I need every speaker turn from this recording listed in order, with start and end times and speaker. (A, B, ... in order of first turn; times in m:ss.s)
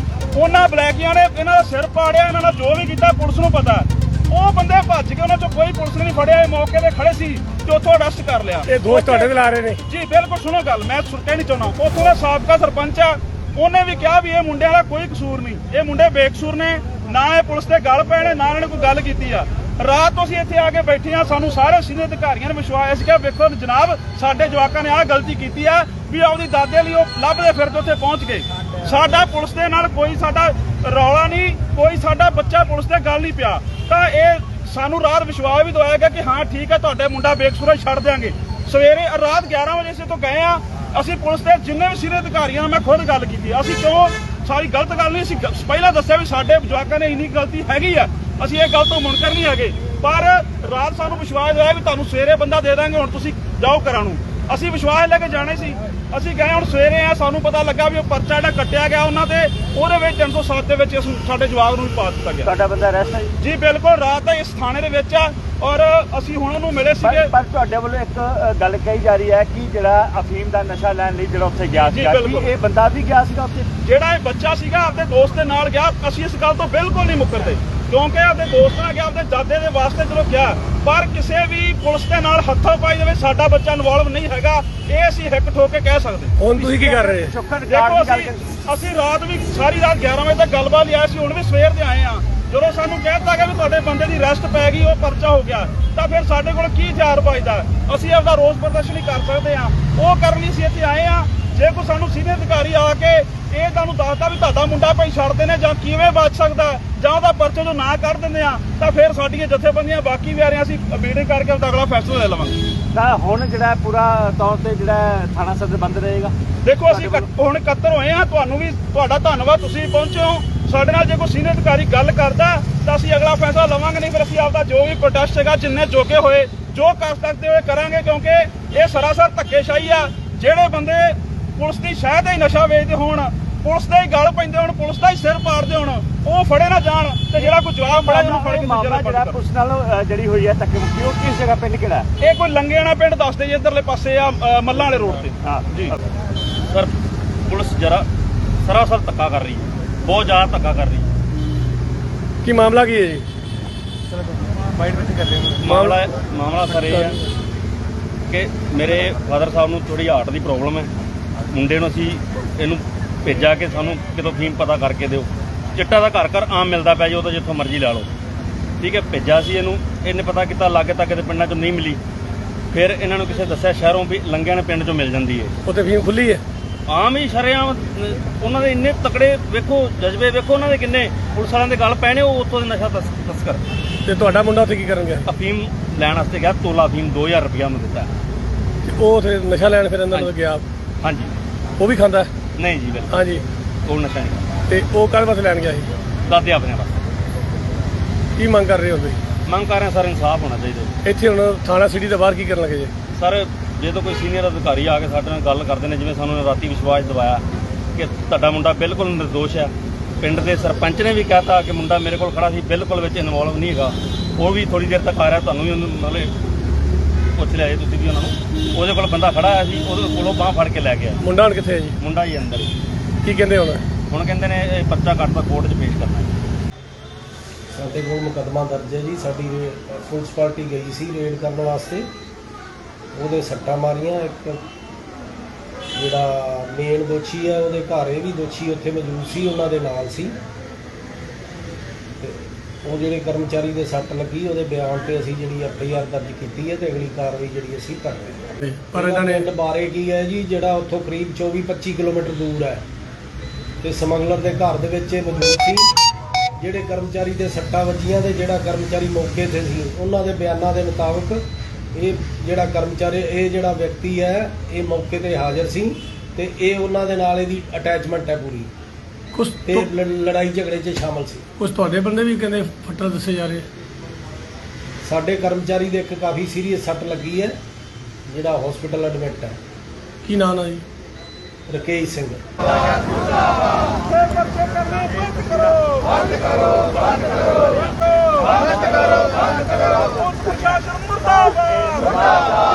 0:00.3-0:09.3 A
0:08.6-0:09.8 B
0:09.9-1:02.5 A
1:02.4-1:03.3 C
1:03.4-1:07.3 A
1:07.0-1:13.7 C
1:11.8-1:12.5 A
1:13.8-1:26.4 A
1:26.4-1:27.3 B
1:26.6-1:28.5 C
1:27.7-1:52.6 A
1:52.9-1:56.3 C
1:56.6-2:19.4 A
1:56.8-1:57.3 C
2:17.4-2:22.1 C
2:22.2-2:26.0 A
2:27.5-2:28.0 D
2:28.6-2:31.1 D
2:32.4-2:33.3 B
2:35.6-2:37.2 D
2:35.6-2:36.0 B
2:36.7-2:37.3 B
2:38.3-2:40.9 D
2:41.5-2:48.1 D
2:48.8-2:52.0 D
2:52.7-2:55.5 D
2:55.6-2:56.4 B
2:56.9-3:03.6 D
3:04.0-3:05.3 B
3:05.2-3:08.1 D
3:08.8-3:10.6 B
3:11.0-3:11.3 D
3:11.8-3:12.3 B
3:12.6-3:13.2 D
3:13.1-3:13.4 B
3:13.8-3:14.5 D
3:14.7-3:15.9 B
3:16.2-3:17.0 D
3:18.4-3:19.2 B
3:19.4-3:20.9 D
3:21.0-3:22.9 B
3:23.1-3:27.4 D
3:28.0-3:36.3 D
3:37.4-3:41.2 D
3:41.2-3:42.0 B
3:42.0-3:42.7 D
3:43.2-3:43.8 B
3:44.1-3:46.3 D
3:47.7-3:52.1 E
3:53.1-3:54.6 E
3:55.9-4:00.4 E
4:02.2-4:08.4 E
4:08.6-4:09.5 B
4:08.9-4:12.8 E
4:13.8-4:15.9 E
4:16.6-4:28.7 E
4:29.3-4:29.9 B
4:29.6-4:31.5 E
4:31.6-4:33.7 B
4:35.0-4:37.6 E
4:38.3-4:39.6 E
4:40.2-4:40.8 B
4:41.7-4:42.4 E
4:44.0-4:52.5 A